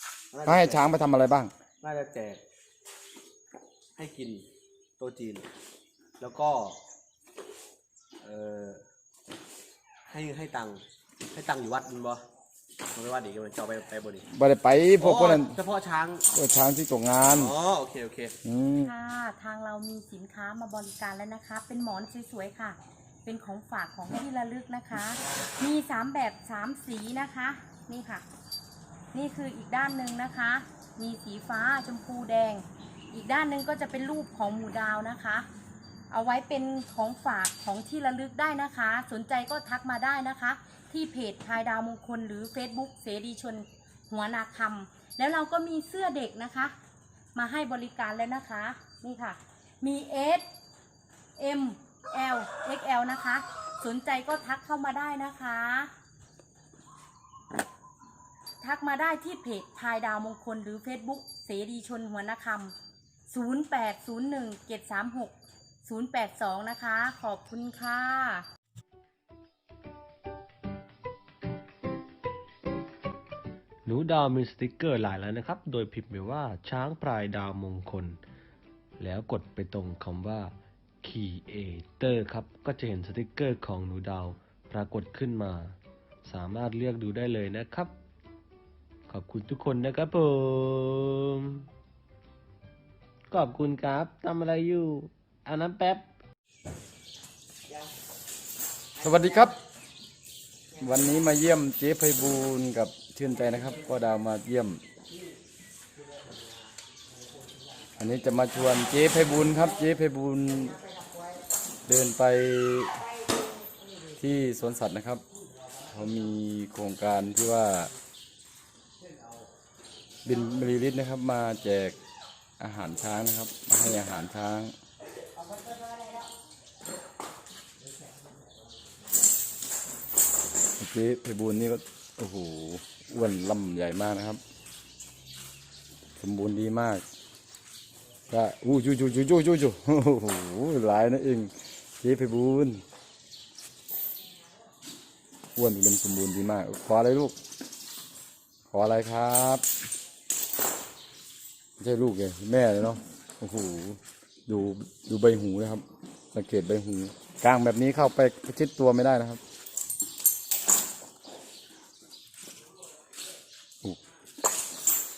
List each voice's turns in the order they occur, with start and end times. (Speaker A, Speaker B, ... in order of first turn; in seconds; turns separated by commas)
Speaker A: 0.3-0.9, Speaker B: 0.5-1.5, Speaker A: 1.8-2.4, Speaker A: 4.0-4.5, Speaker A: 5.0-5.5, Speaker A: 6.2-6.8, Speaker A: 8.2-8.8, Speaker A: 10.1-12.2, Speaker A: 12.9-14.2, Speaker B: 14.3-15.6, Speaker A: 15.0-16.3, Speaker B: 16.3-17.5, Speaker A: 17.3-18.4, Speaker B: 18.4-18.9, Speaker C: 18.8-28.2, Speaker C: 29.1-35.5, Speaker C: 36.1-46.7, Speaker C: 47.4-50.5, Speaker C: 51.4-55.9, Speaker C: 58.6-62.8, Speaker C: 63.3-65.3, Speaker C: 65.8-68.5, Speaker D: 73.8-78.2, Speaker D: 79.0-88.0, Speaker D: 89.1-91.7, Speaker D: 93.3-96.1, Speaker B: 99.0-99.6, Speaker B: 100.8-104.8, Speaker B: 108.0-110.8, Speaker B: 111.9-113.0, Speaker B: 114.2-115.2, Speaker B: 115.9-117.9, Speaker B: 120.2-122.0, Speaker B: 122.6-124.7, Speaker B: 130.8-134.4, Speaker B: 136.2-137.0, Speaker B: 138.3-142.8, Speaker B: 145.6-147.4, Speaker B: 148.7-149.6, Speaker B: 151.8-159.4